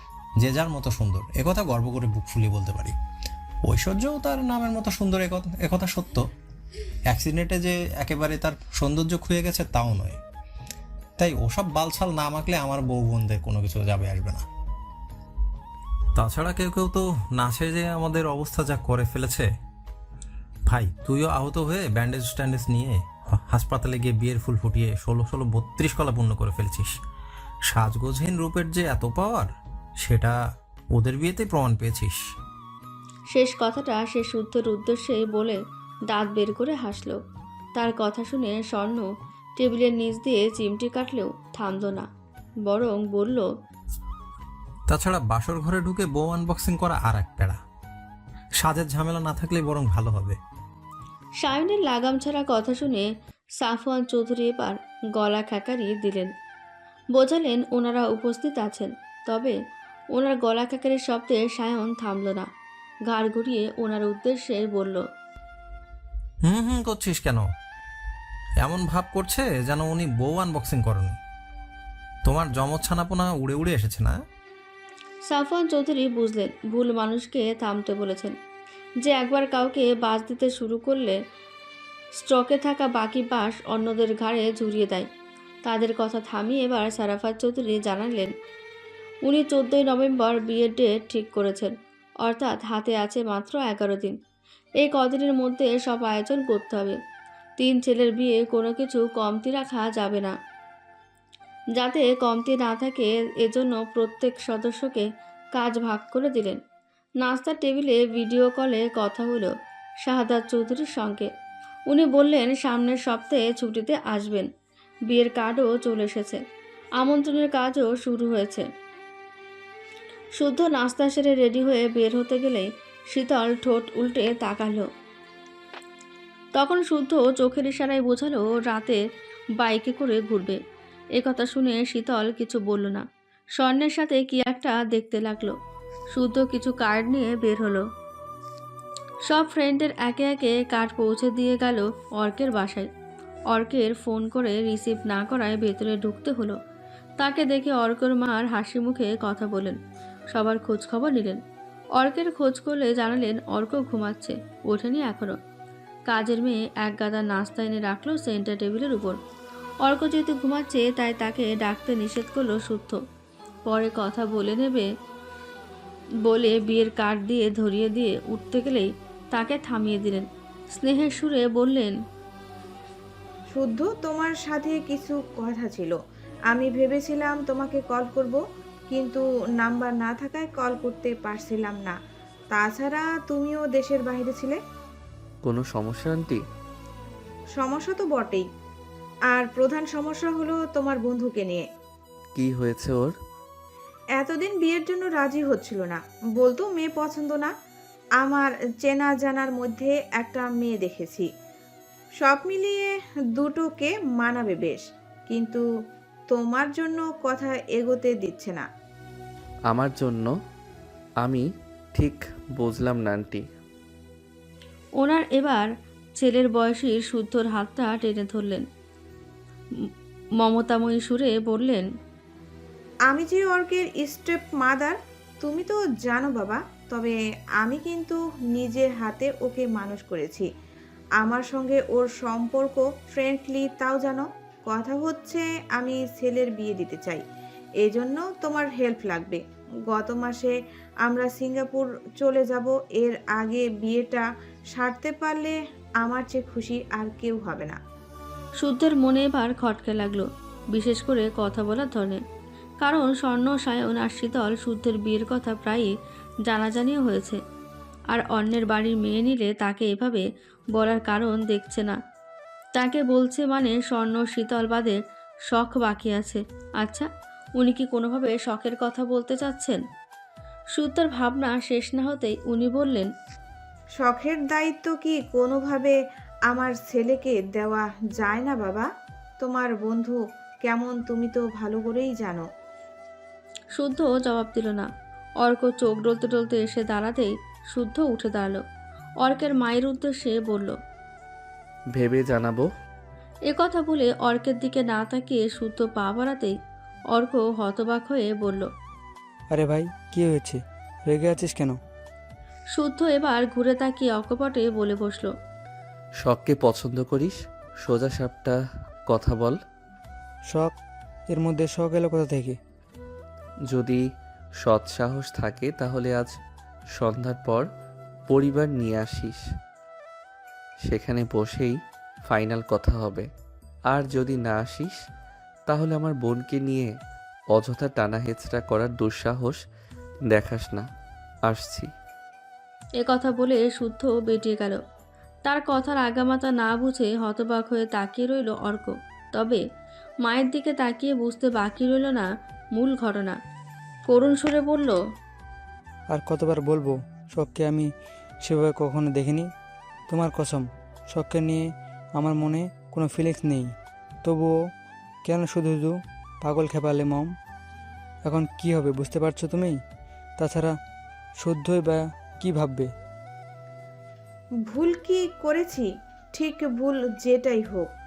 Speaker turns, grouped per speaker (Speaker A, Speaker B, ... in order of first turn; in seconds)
Speaker A: 0.4-2.9, 3.6-6.2, 7.1-10.2, 11.2-14.4, 16.1-19.5, 20.7-26.9, 27.7-30.4, 30.9-32.2, 44.9-47.6, 48.6-50.4, 66.4-67.4, 68.6-71.2, 72.2-74.2
Speaker B: 33.3-37.2, 37.8-42.0, 42.6-43.5, 51.4-53.0, 53.6-56.3, 57.1-59.5, 60.1-62.5, 63.1-65.0, 75.2-78.3, 79.0-81.2, 82.2-85.0, 85.6-88.3, 89.2-91.7, 92.2-94.1, 94.8-97.0, 97.6-100.3, 101.7-106.6, 107.2-109.5, 110.0-111.3, 111.9-114.5, 115.1-116.4, 117.0-118.6, 120.4-124.8, 126.5-129.0, 129.6-130.6, 131.2-133.0, 133.6-135.5, 136.1-137.8, 139.2-142.9, 143.5-146.6, 147.2-149.8, 150.3-151.4, 151.9-155.3, 156.1-159.2, 159.8-163.0, 163.7-164.9, 166.2-171.9, 215.0-215.7, 216.2-218.6, 220.4-221.8, 248.6-252.2, 252.8-255.9, 256.4-257.4, 258.1-261.9, 262.7-264.9, 265.5-269.8, 270.7-273.1, 283.8-284.9, 285.4-288.6, 289.2-290.7, 293.5-296.5, 297.1-298.7, 302.7-305.3, 333.0-334.8, 335.4-339.6, 340.2-343.4, 344.1-344.9
Speaker C: 173.5-182.0, 182.5-184.6, 187.5-188.5, 189.3-191.7, 194.1-197.5, 198.2-201.3, 202.2-205.7, 206.3-208.7, 223.1-230.5, 231.2-237.2, 237.8-247.8, 273.9-282.5, 364.6-367.9
Speaker D: 185.4-186.4, 192.4-193.1, 209.7-210.3, 211.9-213.4, 291.9-292.7, 306.2-309.6, 313.7-314.0, 314.6-316.3, 316.9-317.6, 318.3-319.4, 320.9-321.8, 322.3-323.3, 323.9-325.0, 325.7-326.9, 327.5-329.6, 330.3-330.8, 331.5-331.9
Speaker E: 299.5-301.8, 311.3-312.6, 346.1-347.9, 348.4-349.5, 350.1-351.6, 352.2-353.7, 354.2-354.5, 355.2-357.3, 358.2-359.8, 360.4-360.7, 361.4-362.9